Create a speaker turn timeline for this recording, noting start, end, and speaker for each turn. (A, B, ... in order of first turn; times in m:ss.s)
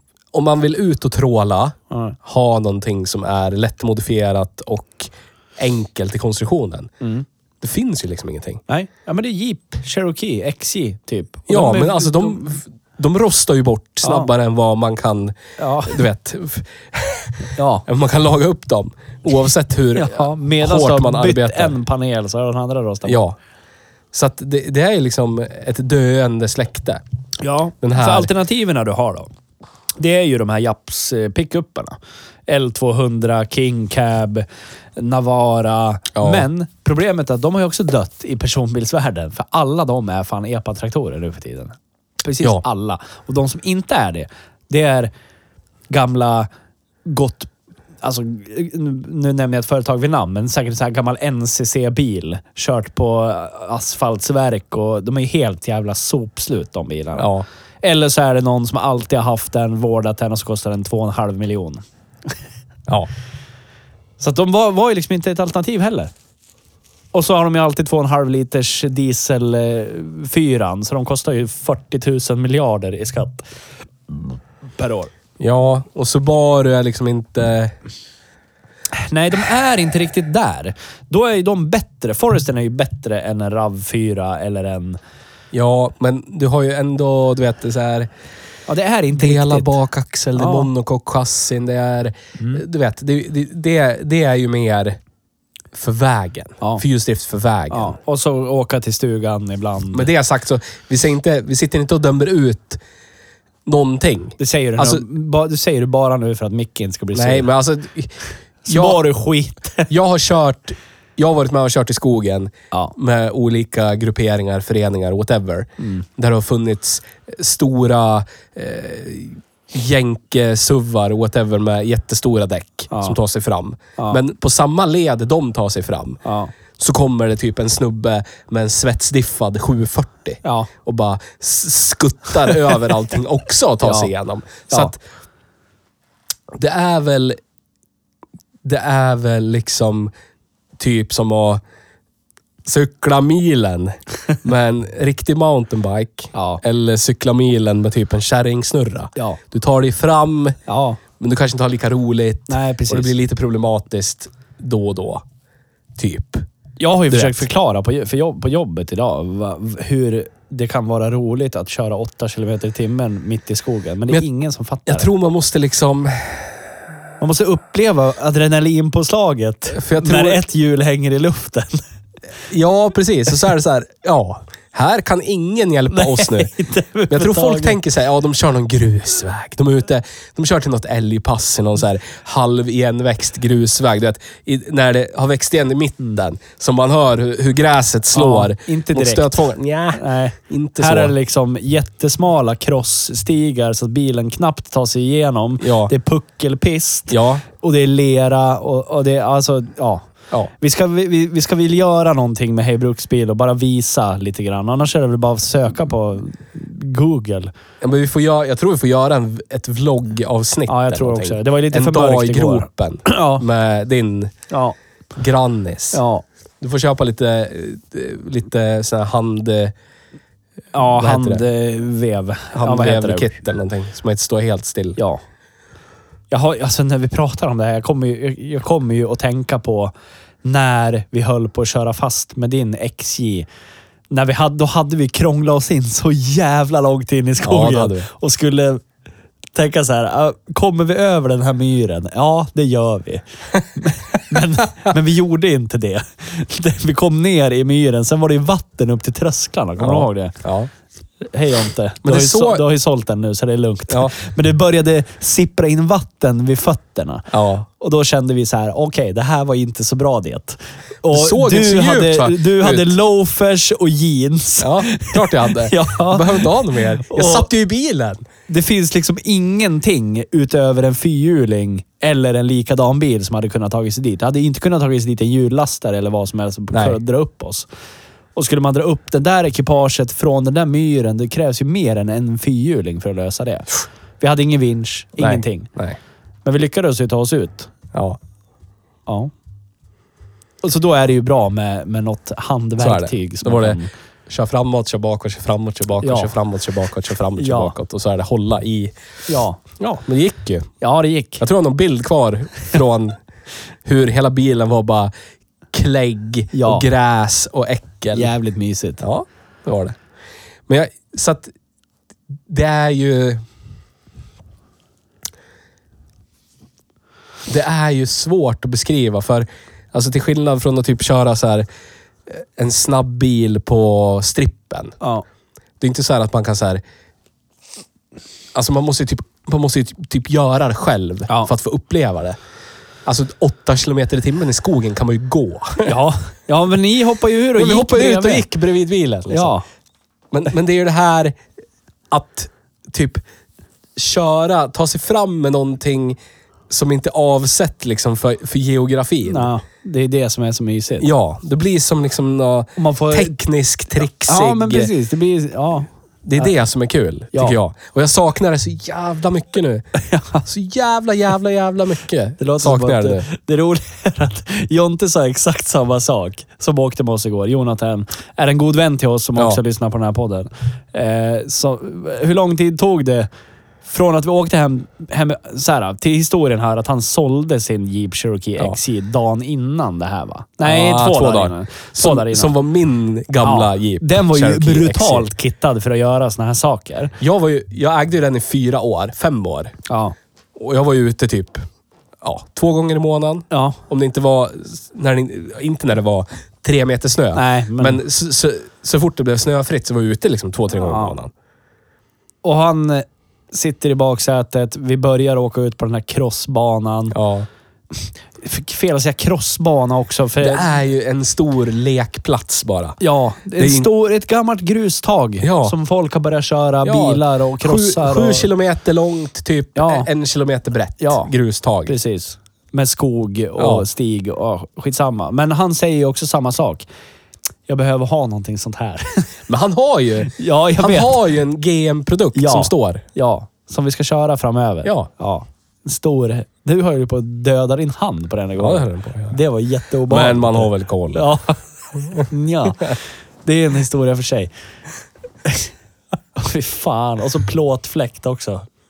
0:00.3-0:06.9 A
0:01.9-0:02.2 B
0:07.0-0:07.2 B
0:07.6-0:08.6 A
0:08.7-0:12.4 B
0:11.5-0:21.8 A
0:14.0-0:14.3 B
0:15.6-0:16.0 B
0:17.6-0:17.8 B
0:19.9-0:23.2 B
0:23.1-0:23.3 A
0:24.1-0:27.0 A
0:27.4-0:29.3 B
0:27.8-0:28.3 A
0:30.0-0:45.1 B
0:36.1-0:36.5 A
0:45.9-0:46.5 B
0:47.0-0:47.5 B
0:48.0-0:57.3 B
0:57.2-0:57.4 A
0:57.8-1:01.8 B
1:04.2-1:06.1 B
1:07.1-1:13.4 B
1:14.1-1:15.1 B
1:15.4-1:17.7 A
1:19.0-1:25.0 B
1:25.5-1:28.1 A
1:28.7-1:29.7 B
1:29.1-1:35.0 A
1:30.4-1:30.7 B
1:35.7-1:37.9 A
1:37.7-1:40.1 B
1:39.9-1:42.8 A
1:43.6-1:45.0 A
1:44.4-1:47.5 B
1:47.1-1:49.0 A
1:48.6-1:49.9 B
1:49.9-2:06.2 A
1:55.8-1:56.0 B
2:02.9-2:03.2 B
2:06.2-2:06.5 B
2:06.8-2:15.0 A
2:10.4-2:10.7 B
2:13.8-2:14.1 B
2:16.5-2:17.4 A
2:18.6-2:20.1 A
2:20.8-2:21.6 A
2:22.6-2:30.6 A
2:26.3-2:26.6 B
2:30.7-2:31.0 B
2:31.2-2:35.2 A
2:32.5-2:33.1 B
2:36.0-2:36.4 A
2:36.8-2:45.1 B
2:37.1-2:37.4 A
2:44.9-2:46.6 A
2:47.2-2:51.8 B
2:49.7-2:50.4 A
2:52.5-2:56.5 A
2:55.9-2:57.8 B
2:57.1-3:11.1 A
3:08.1-3:20.1 B
3:15.6-3:15.9 A
3:17.1-3:17.4 A
3:20.6-3:27.5 B
3:27.8-3:34.3 A
3:30.7-3:33.4 B
3:34.5-3:34.8 B
3:35.2-3:36.0 A
3:35.9-3:36.2 B
3:36.6-3:39.7 A
3:40.7-3:43.4 B
3:40.9-3:41.4 A
3:42.5-3:45.0 A
3:46.3-3:49.9 B
3:50.4-3:53.5 B
3:54.1-3:58.8 B
3:57.4-3:58.1 A
3:59.5-4:03.2 B
4:03.7-4:10.4 B
4:09.8-4:10.7 A
4:11.3-4:27.5 B
4:12.0-4:12.6 A
4:13.9-4:14.1 A
4:17.3-4:17.6 A
4:21.1-4:23.0 A
4:24.6-4:28.2 A
4:28.5-4:37.7 B
4:36.7-4:37.0 A
4:38.3-4:45.7 B
4:45.2-4:46.0 A
4:46.4-4:47.7 B
4:47.9-4:48.2 A
4:49.1-4:49.3 B
4:50.6-4:53.9 B
4:52.8-4:58.9 A
4:56.0-4:56.3 B
4:57.4-4:57.7 B
4:59.3-4:59.6 B
4:59.8-5:00.7 A
5:00.8-5:01.4 B
5:01.4-5:03.2 A
5:03.8-5:05.1 A
5:05.7-5:08.3 A
5:06.5-5:06.8 B
5:08.1-5:09.0 B
5:09.0-5:10.0 A
5:10.7-5:11.5 A
5:12.5-5:13.4 A
5:17.5-5:21.6 A
5:22.3-5:25.0 A
5:25.8-5:26.8 A
5:28.5-5:32.4 A
5:33.0-5:36.0 A
5:35.8-5:38.4 B
5:37.6-5:39.5 A
5:39.3-5:39.6 B
5:40.3-5:41.4 A
5:42.1-5:43.2 A
5:44.0-5:46.2 A
5:46.7-5:49.5 A
5:49.2-5:51.1 B
5:51.0-5:54.9 A
5:52.8-5:53.3 B
5:54.2-5:56.5 B
5:56.2-5:59.8 A
6:00.0-6:00.4 B
6:00.4-6:03.2 A
6:02.4-6:13.3 B
6:13.8-6:22.5 B
6:20.6-6:25.3 A
6:23.4-6:27.1 B
6:27.2-6:29.7 A
6:29.9-6:30.1 B
6:30.6-6:31.6 A
6:32.2-6:41.3 A
6:33.5-6:33.8 B
6:37.3-6:38.0 B
6:40.8-6:41.2 B
6:42.4-6:47.2 B
6:47.1-6:47.5 A
6:47.9-6:50.7 B
6:50.4-6:53.0 A
6:53.0-6:58.5 B
6:53.6-6:53.9 A
6:55.4-6:55.7 A
6:56.8-7:01.9 A
6:59.8-7:00.1 B
7:01.0-7:01.3 B
7:01.8-7:06.8 B
7:03.6-7:03.9 A
7:07.7-7:09.3 B
7:09.5-7:13.0 A
7:10.2-7:11.2 B
7:12.3-7:21.6 B
7:18.6-7:19.4 A
7:20.1-7:21.3 A
7:22.1-7:24.5 B
7:25.4-7:25.7 B
7:26.4-7:28.6 B